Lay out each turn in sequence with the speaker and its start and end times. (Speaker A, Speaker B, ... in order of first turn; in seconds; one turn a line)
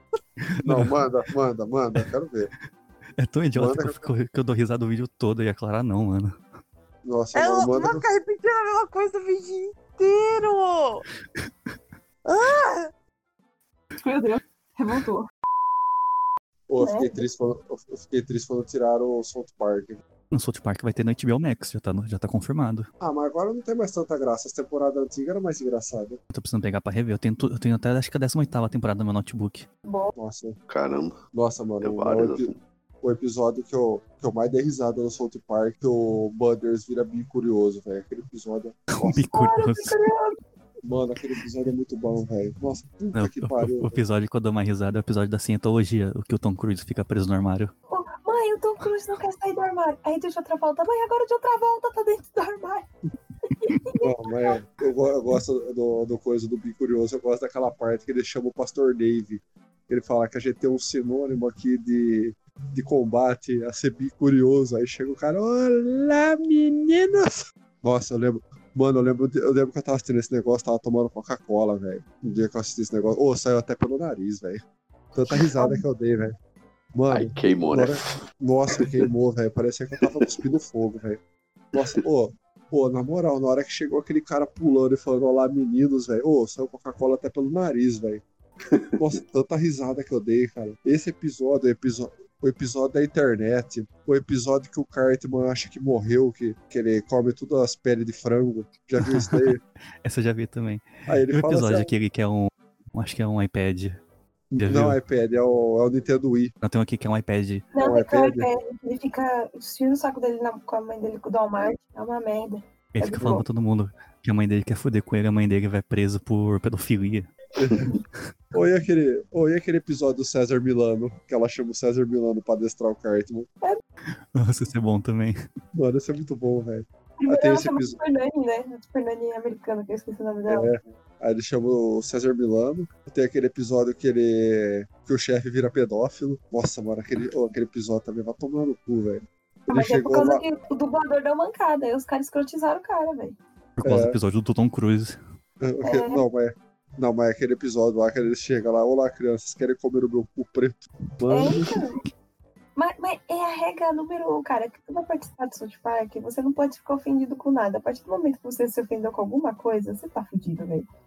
Speaker A: 0.5-0.9
Speaker B: 0.6-2.5
Speaker A: 3.2-6.4
Speaker B: 3.5-4.0
Speaker B: 7.0-8.1
Speaker C: 7.3-11.0
Speaker C: 12.2-12.9
Speaker D: 13.9-15.3
Speaker B: 16.7-20.0
Speaker D: 16.8-17.2
Speaker A: 20.3-22.9
Speaker B: 23.0-26.2
Speaker A: 26.3-29.6
Speaker D: 29.9-30.1
Speaker B: 30.1-30.6
Speaker E: 30.7-31.2
Speaker B: 31.3-32.5
Speaker E: 31.8-32.5
Speaker B: 33.0-39.2
Speaker A: 38.9-39.9
Speaker D: 39.3-40.4
Speaker B: 40.8-44.0
Speaker A: 43.1-47.7
Speaker D: 47.9-52.9
Speaker D: 53.5-54.6
Speaker B: 54.0-74.6
Speaker B: 75.1-76.3
Speaker B: 76.9-81.2
Speaker E: 77.1-78.1
Speaker E: 78.8-79.0
Speaker B: 81.7-88.2
Speaker E: 88.7-89.0
Speaker B: 89.0-99.6
Speaker A: 99.0-99.5
Speaker A: 100.0-104.0
Speaker B: 101.1-101.9
Speaker B: 104.5-106.5
Speaker A: 104.6-105.0
Speaker A: 106.6-107.6
Speaker D: 107.7-113.5
Speaker B: 107.8-108.5
Speaker A: 112.9-117.3
Speaker B: 117.6-117.9
Speaker B: 118.5-123.5
Speaker A: 124.3-125.4
Speaker B: 125.8-128.0
Speaker D: 127.2-130.7
Speaker B: 130.5-140.4
Speaker D: 139.7-143.4
Speaker A: 143.8-145.2
Speaker B: 143.8-144.2
Speaker B: 145.6-151.9
Speaker D: 145.8-146.2
Speaker D: 151.3-152.0
Speaker D: 152.8-160.9